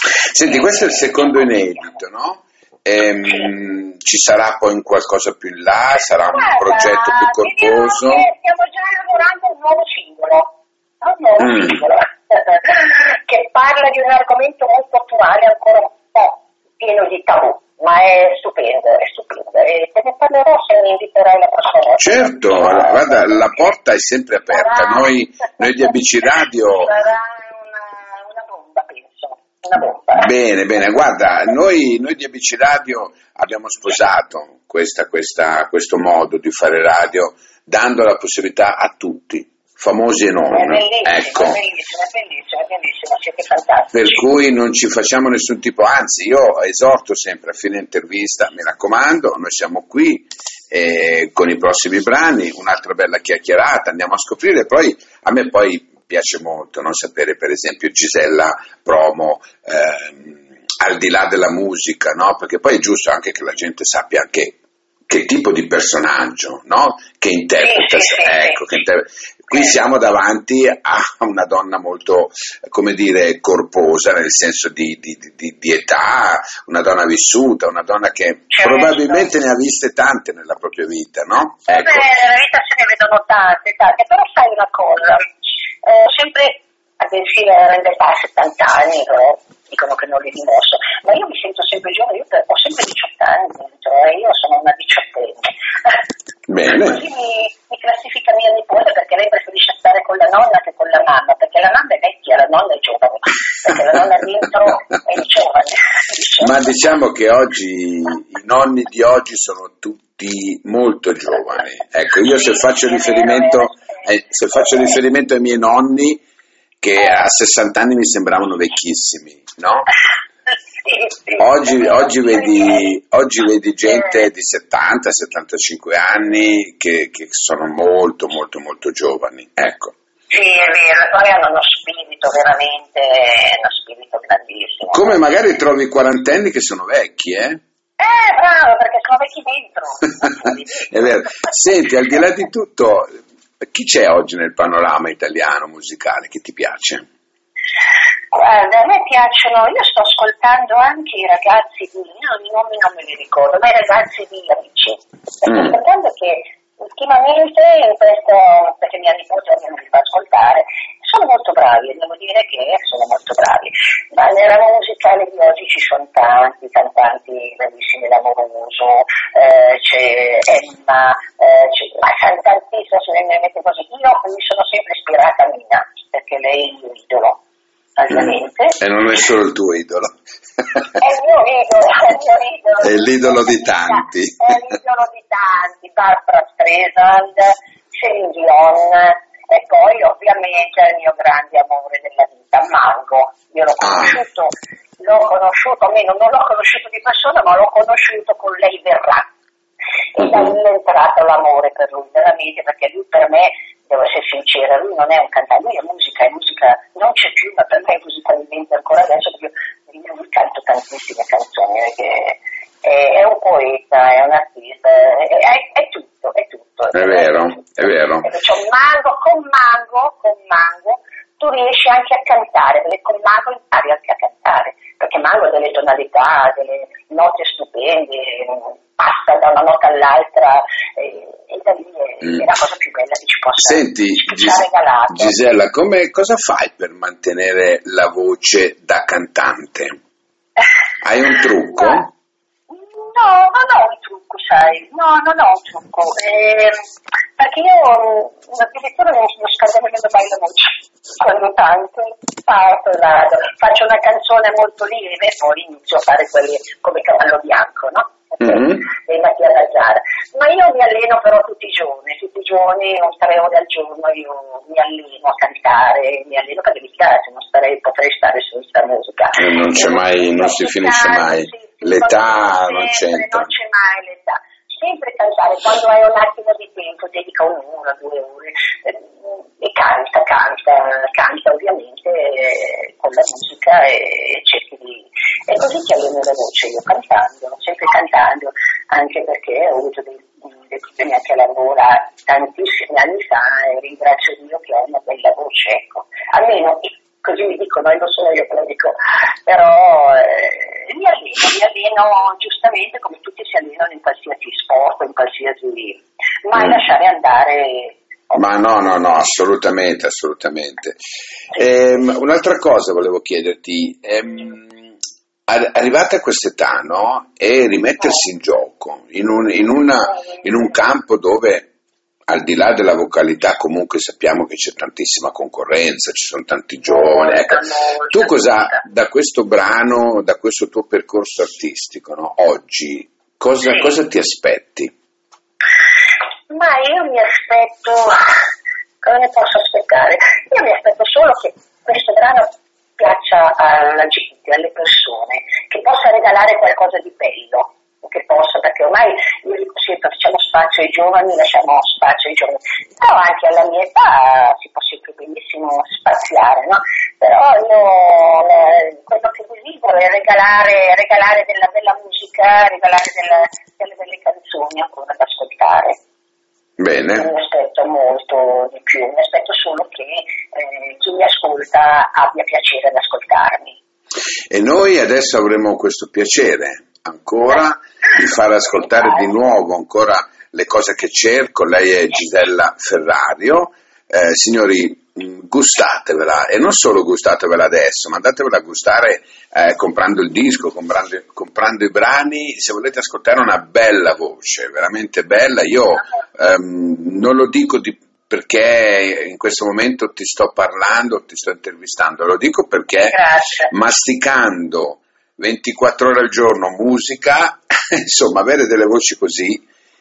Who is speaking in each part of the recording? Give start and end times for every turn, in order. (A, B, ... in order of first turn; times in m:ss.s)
0:00.3-0:08.2 A
0:00.4-0:01.9 B
0:06.3-0:23.6 B
0:11.4-0:11.8 A
0:22.0-0:26.9 A
0:24.5-0:25.6 B
0:26.7-0:30.3 B
0:30.2-0:41.6 A
0:40.5-0:44.2 B
0:43.9-1:04.6 A
1:05.1-1:22.0 A
1:07.6-1:08.6 B
1:18.5-1:19.3 B
1:21.7-1:36.0 B
1:36.5-1:37.0 A
1:36.7-1:46.7 B
1:46.4-1:56.2 A
1:52.4-1:53.7 B
1:56.8-1:59.9 A
2:00.8-2:02.9 B
2:01.4-2:10.0 A
2:10.3-2:15.1 B
2:14.9-2:17.6 A
2:18.0-2:21.6 B
2:20.9-2:27.1 A
2:28.3-2:57.4 B
2:58.0-2:58.8 B
2:58.8-3:00.2 A
3:01.0-3:19.3 B
3:02.8-3:04.6 A
3:13.8-3:14.2 A
3:20.2-3:55.4 B
3:36.9-3:38.3 A
3:53.6-4:00.0 A
4:01.0-4:02.1 A
4:01.8-4:02.0 B
4:02.7-4:06.8 B
4:07.4-5:08.4 B
4:29.4-4:33.5 A
5:08.4-5:11.0 A
5:11.5-5:14.9 A
5:15.5-5:21.7 A
5:22.3-5:34.9 A
5:26.9-5:28.8 B
5:36.5-5:38.4 B
5:39.0-6:06.0 B
6:06.8-6:07.3 A
6:07.2-6:13.8 B
6:14.5-6:49.6 A
6:42.9-6:43.7 B